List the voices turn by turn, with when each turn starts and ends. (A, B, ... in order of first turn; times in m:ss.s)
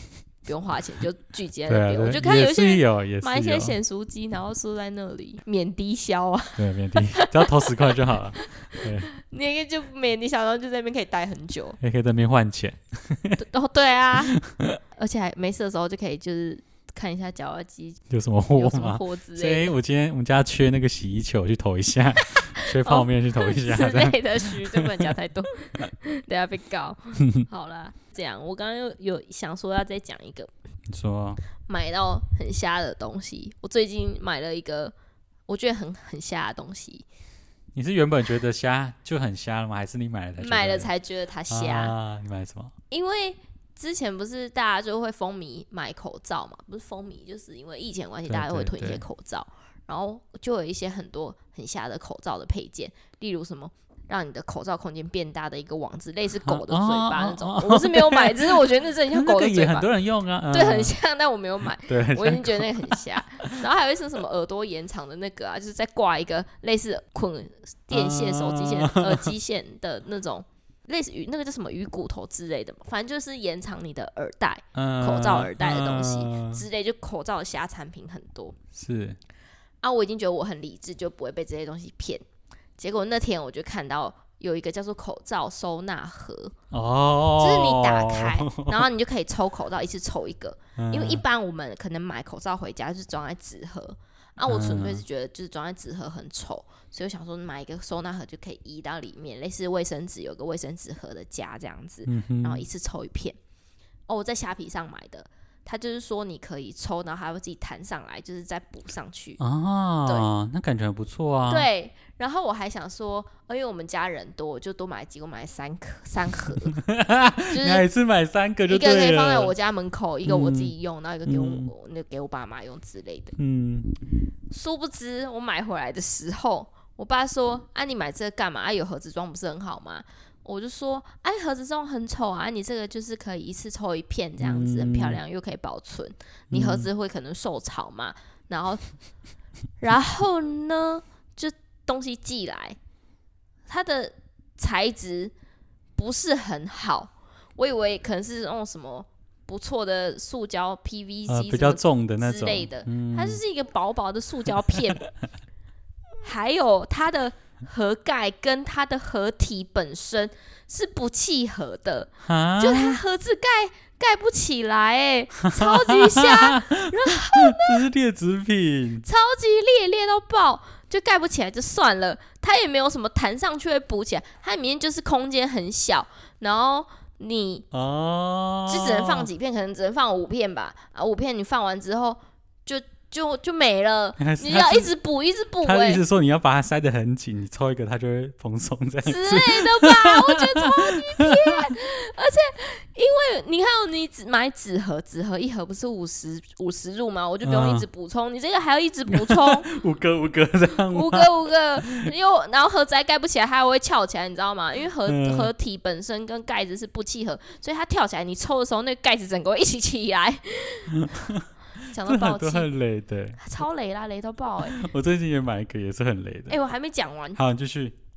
0:00.4-0:11.8 A
0:01.7-0:03.8 B
0:06.6-0:09.1 B
0:11.8-0:13.4 B
0:13.4-0:14.4 A
0:14.3-0:14.8 B
0:14.9-0:18.0 A
0:18.1-0:25.1 B
0:18.6-0:19.7 A
0:22.6-0:30.5 A
0:30.9-0:31.4 B
0:31.6-0:34.9 A
0:35.5-0:37.1 A
0:37.8-0:40.9 B
0:40.4-0:41.9 A
0:41.5-0:42.7 B
0:42.9-0:59.9 A
0:48.3-0:49.0 B
0:56.4-1:01.0 B
1:00.5-1:18.6 A
1:01.9-1:03.6 B
1:07.9-1:09.3 B
1:14.8-1:16.6 B
1:18.8-1:19.2 B
1:19.8-1:22.2 A
1:22.8-1:26.5 A
1:26.7-1:28.9 B
1:27.4-1:43.4 A
1:30.8-1:31.2 B
1:34.5-1:35.0 B
1:42.1-1:42.6 B
1:44.1-1:49.4 A
1:49.4-1:51.7 B
1:51.5-1:56.8 A
1:56.7-1:59.5 B
1:57.5-1:57.8 A
1:58.7-2:03.4 A
2:00.3-2:00.7 B
2:01.3-2:01.7 B
2:03.4-2:04.0 B
2:04.5-2:18.8 A
2:14.4-2:15.2 B
2:16.5-2:16.9 B
2:19.8-2:22.8 A
2:23.7-2:25.3 A
2:26.0-2:35.0 A
2:31.3-2:33.4 B
2:36.2-2:47.8 A
2:42.2-2:43.0 B
2:45.4-2:49.1 B
2:49.0-2:57.6 A
2:57.7-2:59.3 B
2:58.7-3:06.0 A
3:04.2-3:04.9 B
3:05.6-3:11.7 B
3:09.0-3:19.7 A
3:17.4-3:17.9 B
3:19.1-3:21.3 B
3:20.9-3:31.1 A
3:25.1-3:25.5 B
3:31.0-3:31.5 B
3:31.8-3:32.7 A
3:32.0-3:33.6 B
3:33.4-3:34.8 A
3:34.6-3:36.6 B
3:36.5-3:37.4 A
3:37.4-3:38.0 B